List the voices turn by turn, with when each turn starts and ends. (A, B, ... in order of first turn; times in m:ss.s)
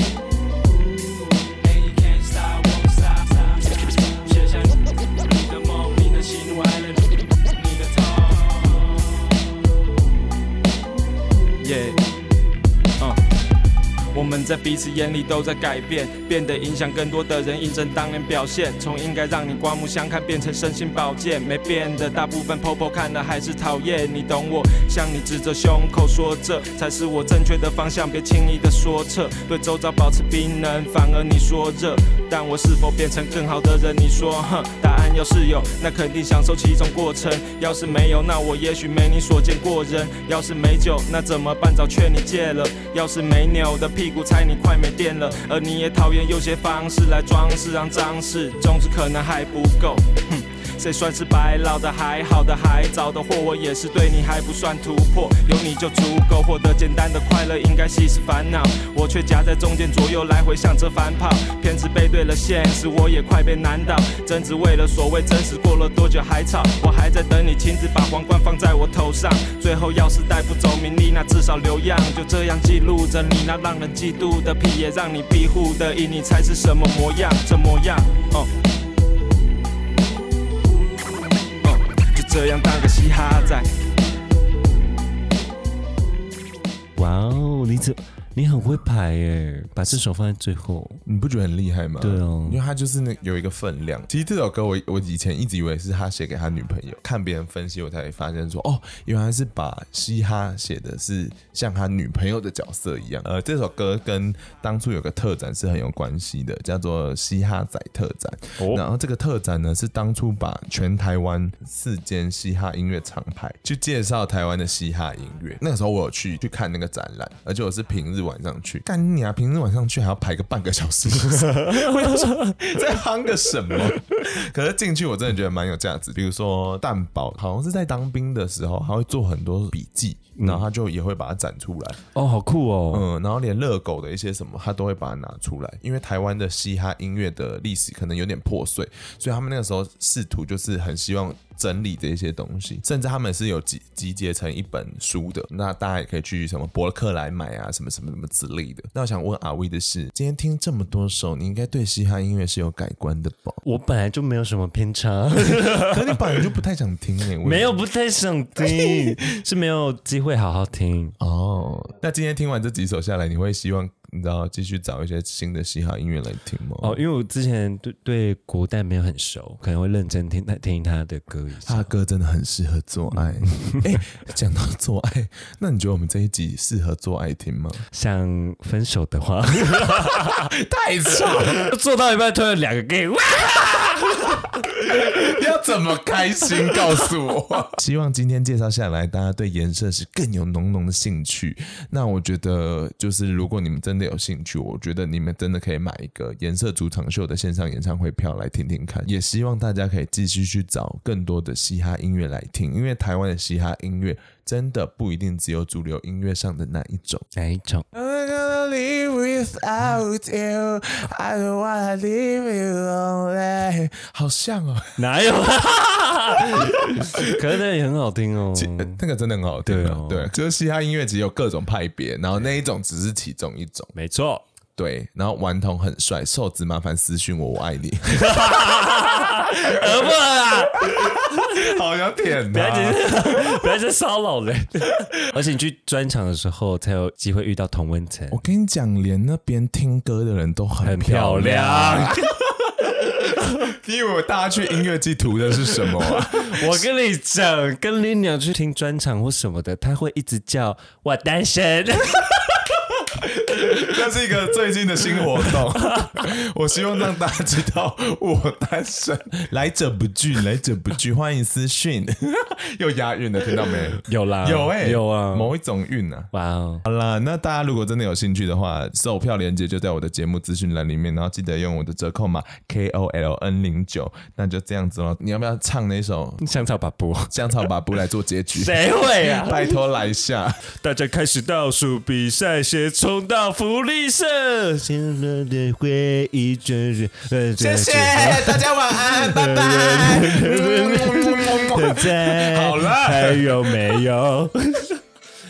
0:01.6-0:08.9 A
0:11.6-0:12.0 A
0:14.1-1:18.5 A
1:21.6-1:23.7 A
1:27.0-1:31.0 B
1:31.0-2:12.0 C
1:32.0-1:32.6 B
1:48.6-1:48.8 B
2:01.4-2:02.4 B
2:10.4-2:10.6 B
2:12.1-2:13.1 B
2:12.9-2:33.6 C
2:33.6-2:36.4 B
2:35.7-2:37.8 C
2:37.4-2:41.1 B
2:41.2-2:47.0 C
2:46.8-2:51.9 B
2:51.6-2:57.8 C
2:57.9-3:00.5 B
3:00.2-3:01.6 C
3:01.2-3:04.5 B
3:04.8-3:27.3 C
3:27.3-3:27.8 B
3:27.9-3:35.0 C
3:35.0-3:39.0 B
3:36.9-3:37.4 C
3:38.5-3:43.9 C
3:39.6-3:40.3 B
3:43.9-3:44.4 B
3:44.8-3:48.8 C
3:48.1-3:51.7 B
3:49.6-3:50.1 C
3:50.9-3:53.6 C
3:52.5-3:58.4 B
3:58.3-4:06.8 C
4:00.8-4:02.3 B
4:05.8-4:12.4 B
4:13.2-4:26.3 C
4:15.2-4:16.1 B
4:24.0-4:25.5 B
4:26.3-4:26.8 B
4:26.8-4:36.4 C
4:36.4-4:37.6 B
4:37.3-4:40.6 C
4:38.5-4:39.8 B
4:40.7-4:55.0 B
4:47.6-4:53.8 C